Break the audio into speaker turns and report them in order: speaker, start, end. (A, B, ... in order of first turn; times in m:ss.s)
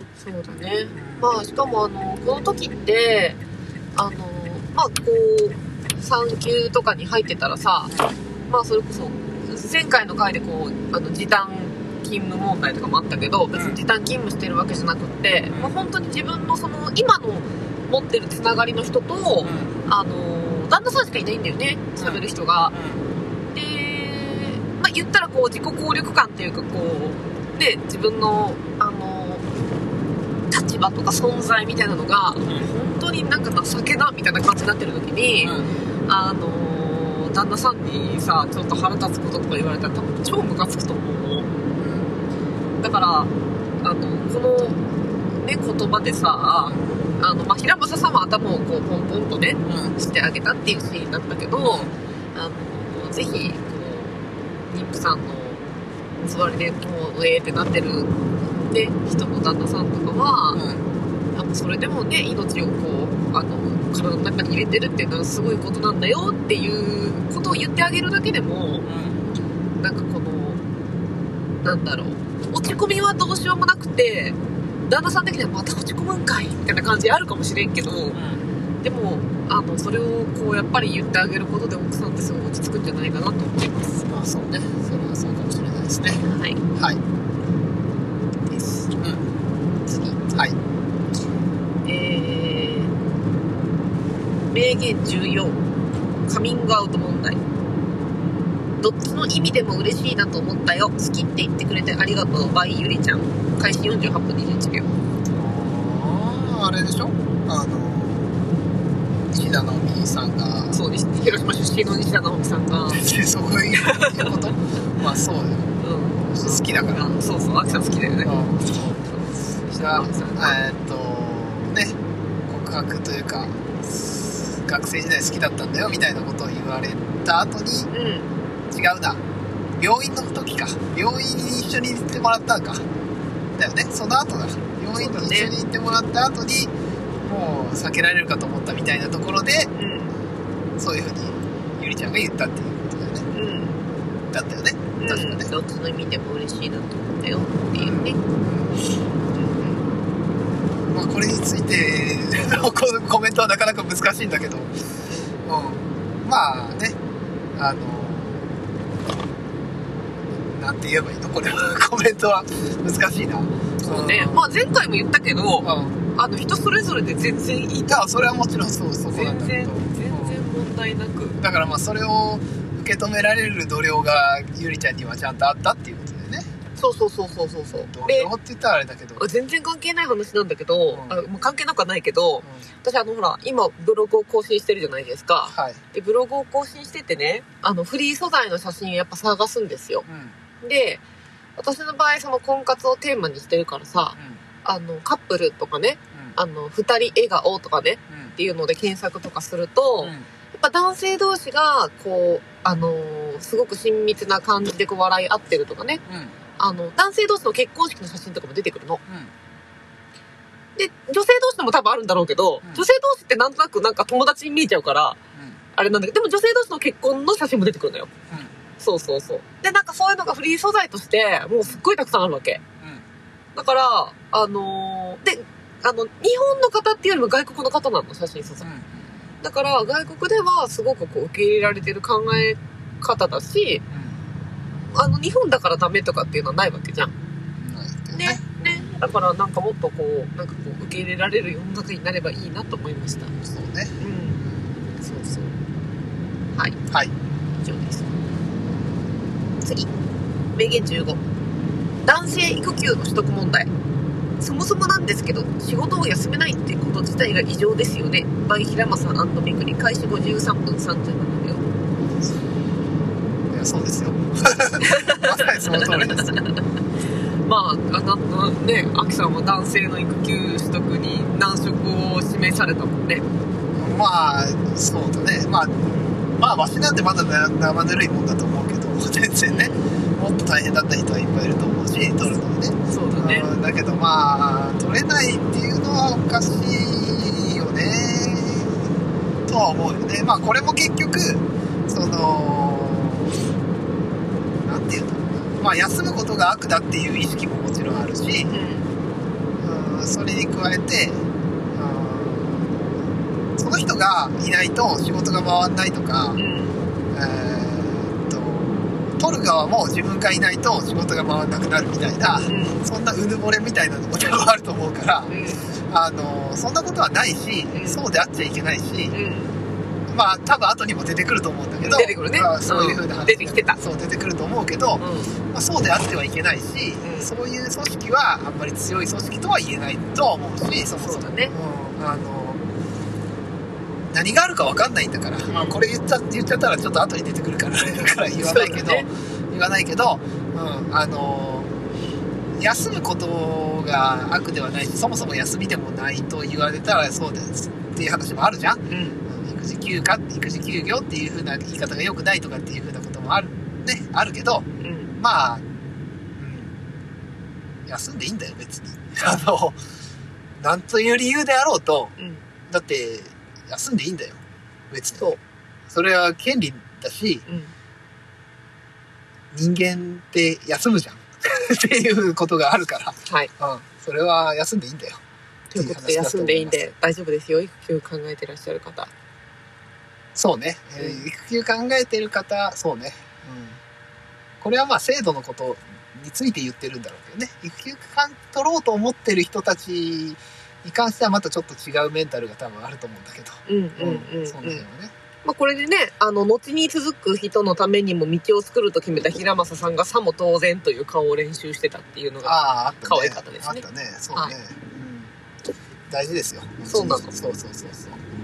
0:00.2-0:03.4 A
0:00.9-0:01.4 B
0:04.0-0:07.9 A
0:07.9-0:08.2 B
0:08.5-0:22.8 A
0:13.5-0:13.8 B
0:15.5-0:15.8 B
0:19.4-0:19.8 B
0:22.0-0:23.1 B
0:23.5-0:29.4 A
0:30.5-0:41.5 A
0:35.4-0:35.7 B
0:41.8-0:42.2 B
0:42.8-0:55.6 A
0:49.6-0:50.0 B
0:51.6-0:52.0 B
0:56.2-1:00.6 A
1:00.5-1:00.9 B
1:01.3-1:08.9 A
1:08.9-1:09.2 B
1:09.8-1:10.6 A
1:11.6-1:18.2 A
1:18.1-1:18.5 B
1:18.8-1:24.1 A
1:24.1-1:26.2 B
1:26.2-1:26.6 A
1:26.8-1:27.0 B
1:28.5-1:28.8 A
1:28.9-1:29.3 B
1:29.9-1:30.3 A
1:31.8-1:32.9 A
1:34.5-1:35.6 A
1:36.3-1:37.4 A
1:38.8-1:44.9 A
1:45.3-1:48.4 B
1:49.3-1:50.8 B
1:50.7-1:53.0 A
1:52.8-1:55.8 B
1:53.8-1:54.3 A
1:55.8-2:00.6 A
1:56.3-1:59.0 B
1:59.8-2:02.0 B
2:02.5-2:07.9 B
2:07.9-2:08.3 A
2:08.7-2:09.2 B
2:09.8-2:12.8 B
2:13.6-2:16.7 B
2:15.0-2:15.5 A
2:17.2-2:19.7 B
2:19.7-2:20.1 A
2:20.8-2:23.3 B
2:23.3-2:23.9 A
2:24.3-2:25.5 B
2:25.0-2:28.2 A
2:27.8-2:28.9 B
2:29.3-2:29.9 A
2:30.9-2:34.7 B
2:35.1-2:35.3 A
2:35.5-2:37.0 B
2:37.6-2:38.6 B
2:40.5-2:44.5 B
2:43.8-2:48.1 A
2:45.6-2:46.0 B
2:47.9-2:50.4 B
2:49.1-2:51.4 A
2:51.4-2:56.5 B
2:56.8-2:58.3 A
2:57.8-2:59.3 B
2:59.2-3:10.0 A
3:00.9-3:01.3 B
3:02.4-3:02.7 B
3:05.5-3:05.8 B
3:10.1-3:10.4 B
3:10.6-3:11.0 A
3:11.6-3:26.0 A
3:14.2-3:14.4 B
3:18.1-3:18.4 B
3:20.0-3:20.3 B
3:26.1-3:26.4 B
3:26.6-3:29.0 A
3:29.1-3:29.3 B
3:30.8-3:35.2 A
3:35.4-3:35.6 B
3:35.8-3:38.1 A
3:38.8-3:42.6 A
3:43.6-3:48.7 A
3:48.6-3:49.2 B
3:49.4-3:53.8 A
3:53.9-3:54.3 B
3:54.9-3:57.1 A
3:57.6-3:58.9 B
3:58.1-4:03.3 A
4:03.4-4:04.7 B
4:04.0-4:04.4 A
4:05.0-4:05.6 A
4:07.6-4:08.1 A
4:09.6-4:09.9 A
4:10.5-4:11.2 A
4:12.0-4:13.7 A
4:14.4-4:21.7 A
4:23.5-4:26.4 B
4:24.8-4:26.6 A
4:27.4-4:33.2 A
4:33.8-4:48.8 B
4:35.8-4:36.2 A
4:39.5-4:39.8 A
4:42.9-4:43.5 A
4:49.5-4:53.4 B
4:54.6-4:58.5 B
4:58.5-4:58.9 A
4:59.6-5:02.9 B
5:03.6-5:06.4 B
5:06.4-5:06.8 A
5:07.1-5:15.3 B
5:12.5-5:12.8 A
5:15.3-5:15.7 A
5:15.9-5:19.2 B
5:17.7-5:18.0 A
5:19.1-5:19.6 A
5:20.1-5:32.6 B
5:21.8-5:23.8 A
5:25.0-5:25.3 A
5:27.0-5:27.3 A
5:31.0-5:31.5 A
5:34.1-5:41.7 B
5:35.5-5:35.8 A
5:38.4-5:39.1 A
5:42.6-5:54.7 B
5:48.9-5:49.2 A
5:54.8-5:55.1 A
5:55.2-5:55.6 B
5:56.4-5:56.8 B
5:57.9-5:59.8 B
6:00.6-6:02.1 B
6:02.2-6:02.4 A
6:02.7-6:04.4 B
6:04.9-6:05.4 B
6:05.9-6:07.4 B
6:07.5-6:07.7 A
6:09.5-6:15.2 B
6:15.7-6:19.1 A
6:15.8-6:16.8 B
6:20.4-6:23.8 B
6:21.0-6:21.2 A
6:24.6-6:35.1 B
6:33.7-6:34.8 A
6:35.4-6:44.5 A
6:42.4-6:45.3 B
6:46.1-6:48.2 B
6:46.9-6:47.3 A